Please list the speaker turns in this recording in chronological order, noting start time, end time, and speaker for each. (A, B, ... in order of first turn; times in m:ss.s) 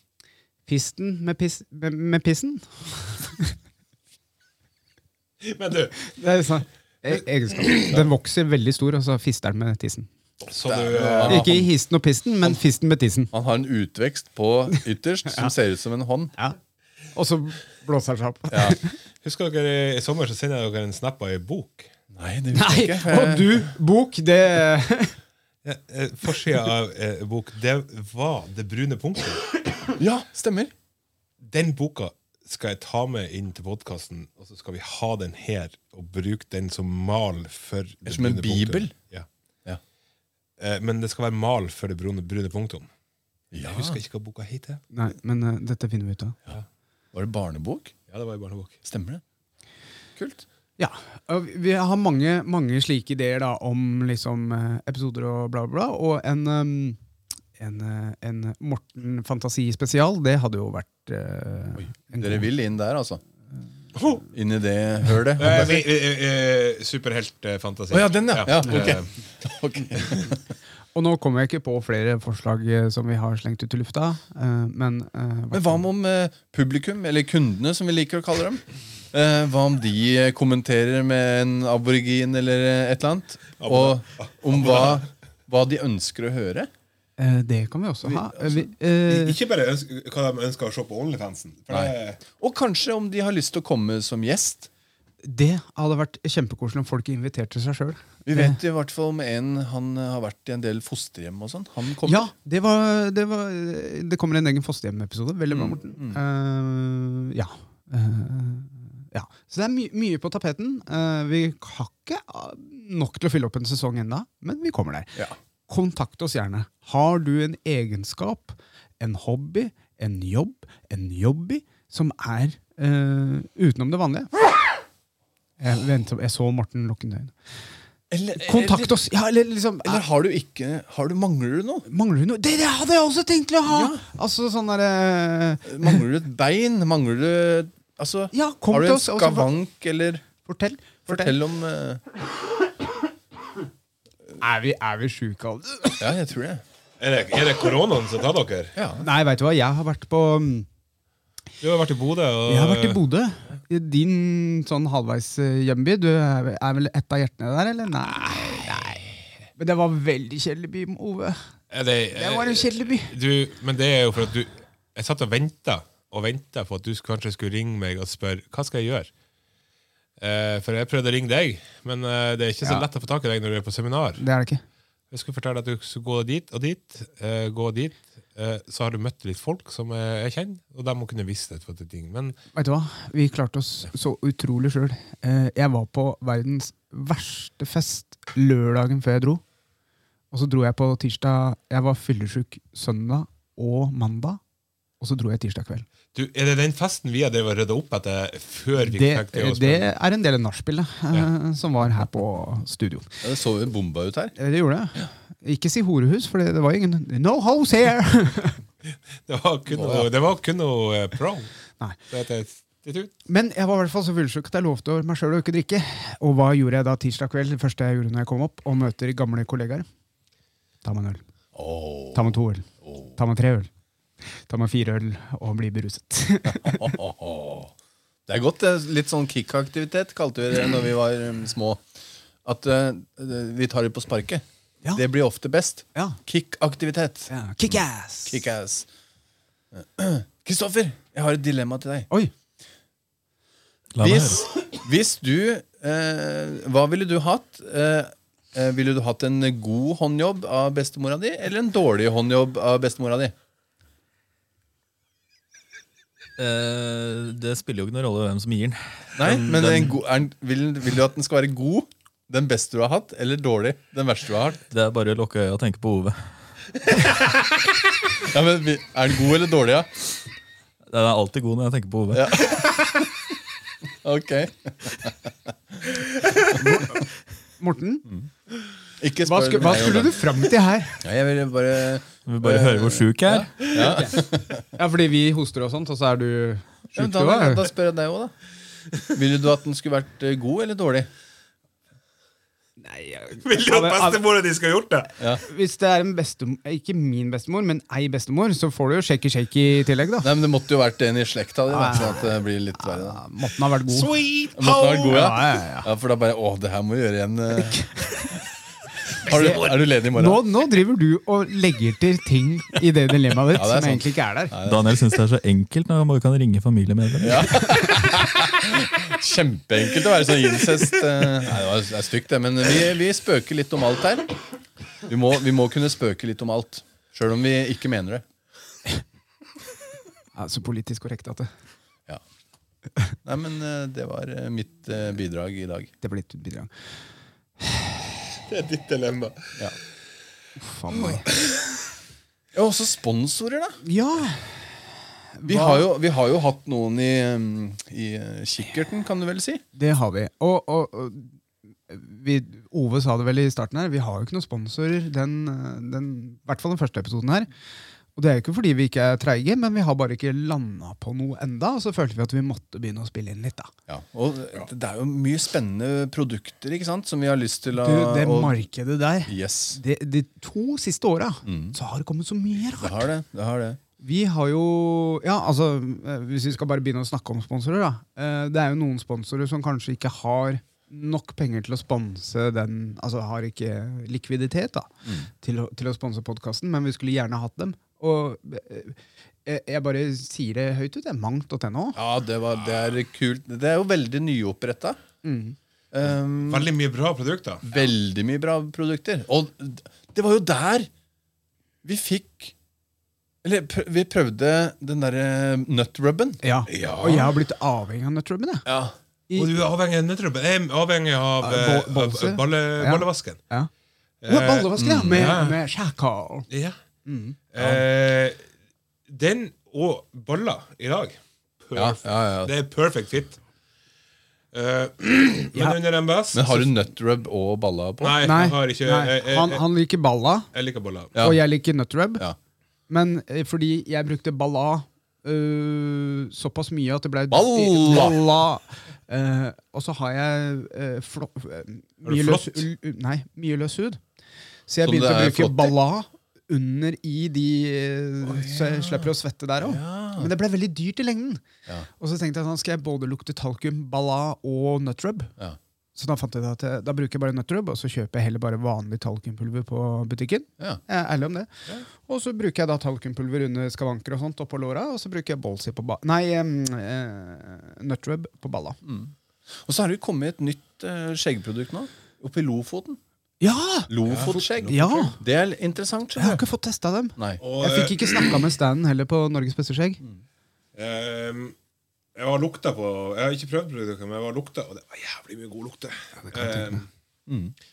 0:00.7-0:03.6 A
0:05.4-0:06.1 B
0:06.1-0:10.1 A
0:10.4-0:11.4 B
0:10.6-0:11.7 C
0:11.3-0:13.3 A
0:13.3-0:16.3 C
0:15.3-0:15.5 A
0:17.1-0:18.9 A
0:18.5-0:18.8 C
0:19.2-0:21.9 B
0:22.1-0:23.7 C
0:22.5-0:25.2 A
0:25.6-0:29.6 B
0:29.9-0:30.7 C
0:31.4-0:39.3 B
0:38.0-0:39.0 C
0:40.6-0:42.9 B
0:43.5-0:44.0 C
0:43.7-0:44.8 B
0:44.9-0:46.4 A
0:47.1-0:47.9 C
0:48.1-0:48.8 B
0:48.8-0:49.2 C
0:50.2-0:50.4 C
0:50.8-0:57.0 A
0:57.6-1:02.5 A
1:02.1-1:03.2 C
1:04.0-1:04.2 B
1:04.3-1:05.8 C
1:05.4-1:09.1 B
1:07.9-1:10.4 C
1:10.9-1:15.9 A
1:15.5-1:26.7 C
1:23.6-1:25.0 B
1:27.2-1:29.4 A
1:28.0-1:28.7 C
1:29.1-1:32.2 B
1:31.7-1:34.7 C
1:35.2-1:38.6 A
1:38.2-1:42.3 C
1:42.0-2:04.4 A
1:45.5-1:46.2 C
2:05.6-2:07.3 A
2:08.1-2:08.9 C
2:08.4-2:10.0 A
2:09.8-2:11.9 C
2:11.8-2:16.0 A
2:13.7-2:14.0 C
2:15.6-2:20.3 C
2:18.3-2:19.5 A
2:20.4-2:21.4 A
2:21.1-2:22.0 C
2:24.4-2:26.0 A
2:26.0-2:26.6 C
2:27.0-2:28.8 B
2:28.8-2:29.1 C
2:29.0-2:30.7 A
2:31.6-2:33.0 B
2:32.5-2:41.4 A
2:41.7-2:49.1 B
2:42.2-2:43.1 A
2:50.2-2:54.2 B
2:54.2-2:54.6 A
2:55.1-3:02.4 B
3:02.5-3:09.4 A
3:10.3-3:14.4 A
3:15.0-3:15.9 A
3:16.1-3:19.9 B
3:18.8-3:23.2 A
3:23.2-3:24.4 C
3:24.4-3:28.6 A
3:28.9-3:31.5 B
3:29.7-3:30.1 C
3:32.1-3:33.1 B
3:33.3-3:39.9 A
3:40.8-3:41.2 A
3:41.5-3:43.1 C
3:42.1-3:43.7 A
3:44.3-3:47.0 A
3:46.4-3:47.7 C
3:48.3-3:51.8 C
3:52.4-3:58.9 C
3:57.3-3:58.4 A
3:59.7-4:02.1 C
4:04.0-4:04.4 D
4:04.0-4:13.3 C
4:16.4-4:20.0 D
4:19.2-4:24.6 C
4:24.7-4:26.3 D
4:28.2-4:29.9 C
4:30.9-4:32.6 D
4:32.1-4:33.1 C
4:34.0-4:35.3 C
4:36.5-4:37.0 A
4:37.6-4:38.0 A
4:39.0-4:40.4 C
4:39.2-4:41.0 A
4:41.0-4:44.6 C
4:42.3-4:43.8 D
4:43.9-4:47.7 A
4:46.9-4:48.3 C
4:49.1-4:51.1 C
4:52.8-4:54.2 A
4:53.4-4:55.1 B
4:55.4-5:00.3 A
5:00.2-5:03.2 C
5:01.7-5:04.1 A
5:03.9-5:05.3 B
5:04.6-5:07.8 C
5:05.0-5:05.9 A
5:07.6-5:08.2 A
5:09.2-5:10.4 C
5:09.3-5:14.5 A
5:13.5-5:15.0 C
5:14.6-5:17.9 D
5:17.2-5:24.4 C
5:25.1-5:28.2 C
5:30.4-5:31.5 A
5:33.2-5:35.9 C
5:36.0-5:36.7 A
5:37.6-5:37.9 A
5:38.4-5:39.6 B
5:40.6-5:41.3 A
5:41.4-5:41.7 B
5:42.5-5:43.8 C
5:43.8-5:44.8 A
5:45.4-5:45.9 A
5:45.4-5:49.6 C
5:49.8-5:51.4 A
5:51.9-5:57.5 A
5:58.2-6:03.7 A
6:03.9-6:08.7 C
6:07.7-6:13.1 A
6:09.3-6:09.8 C
6:11.4-6:11.8 C
6:12.8-6:13.8 C
6:14.0-6:32.0 A
6:32.0-6:35.0 C
6:35.2-6:35.6 A
6:35.9-6:36.7 C
6:36.4-6:37.8 B
6:37.6-6:40.9 C
6:41.8-6:42.5 C
6:43.4-6:46.9 C
6:46.4-6:48.7 A
6:46.7-6:47.3 B
6:48.6-6:49.0 C
6:49.3-6:49.5 A
6:49.4-6:53.4 B
6:51.4-6:53.7 A
6:54.2-6:55.6 B
6:54.3-6:56.5 A
6:54.8-6:55.4 C
6:56.5-6:56.8 B
6:57.0-6:57.4 A
6:57.5-6:58.4 B
6:57.6-6:57.8 C
6:59.1-7:03.4 B
7:01.8-7:02.5 C
7:04.5-7:06.7 B
7:06.3-7:08.2 C
7:08.0-7:09.6 B
7:08.2-7:10.5 A
7:10.5-7:11.1 B
7:11.1-7:11.4 C
7:11.2-7:12.3 A
7:12.9-7:24.0 A
7:17.3-7:18.2 C
7:22.0-7:22.6 B
7:24.7-7:31.4 A
7:24.8-7:25.8 C
7:28.2-7:30.3 C
7:32.0-7:35.3 A
7:36.0-7:48.8 A
7:48.8-7:53.0 C
7:53.4-7:55.2 A
7:53.9-7:56.4 C
7:54.1-7:54.4 B
7:56.2-8:00.0 A
7:57.2-7:57.4 C
7:57.4-7:58.4 B
8:00.8-8:01.6 B
8:02.2-8:06.9 B
8:06.2-8:06.8 A
8:07.3-8:07.5 C